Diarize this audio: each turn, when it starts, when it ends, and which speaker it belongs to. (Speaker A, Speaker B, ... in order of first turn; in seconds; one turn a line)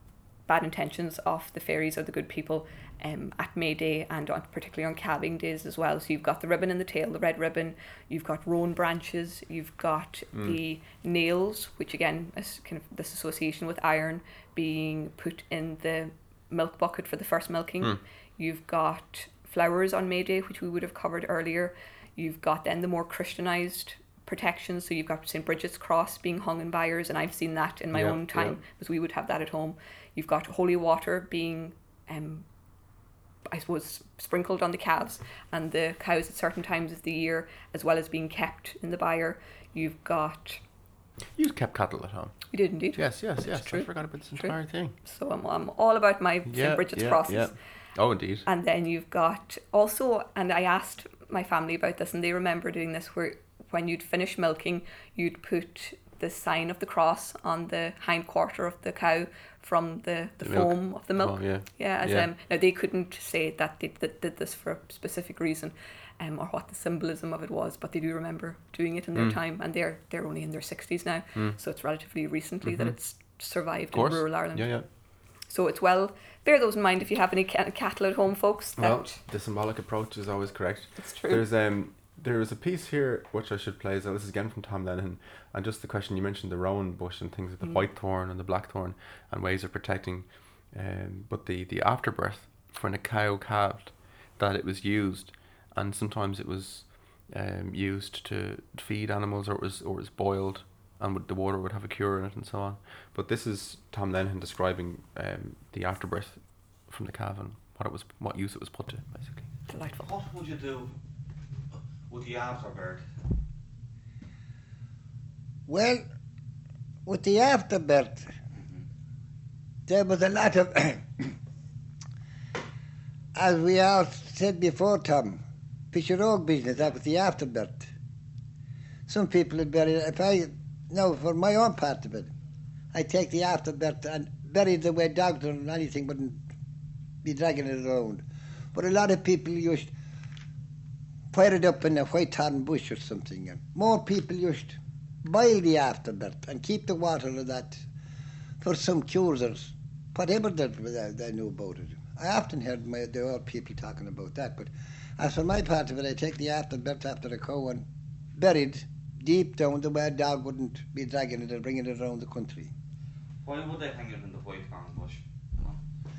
Speaker A: 0.4-32.5
Speaker B: 10.3-10.6
Speaker B: 27.9-28.6
Speaker A: 33.5-40.6
Speaker B: 41.4-42.4
Speaker A: 42.5-47.6
Speaker B: 43.0-45.0
Speaker B: 46.5-48.5
Speaker A: 48.5-74.8
Speaker B: 60.4-62.3
Speaker B: 72.7-73.0
Speaker B: 73.9-74.9
Speaker A: 75.5-79.1
Speaker B: 78.8-109.5
Speaker A: 81.0-81.4
Speaker A: 109.7-110.1
Speaker C: 110.0-110.9
Speaker C: 112.1-113.1
Speaker D: 115.7-116.0
Speaker D: 117.1-118.3
Speaker C: 118.6-118.8
Speaker D: 119.9-121.3
Speaker D: 123.4-127.9
Speaker D: 129.1-132.3
Speaker D: 132.9-136.4
Speaker D: 137.2-139.9
Speaker D: 141.3-147.9
Speaker D: 148.6-162.7
Speaker C: 163.4-165.8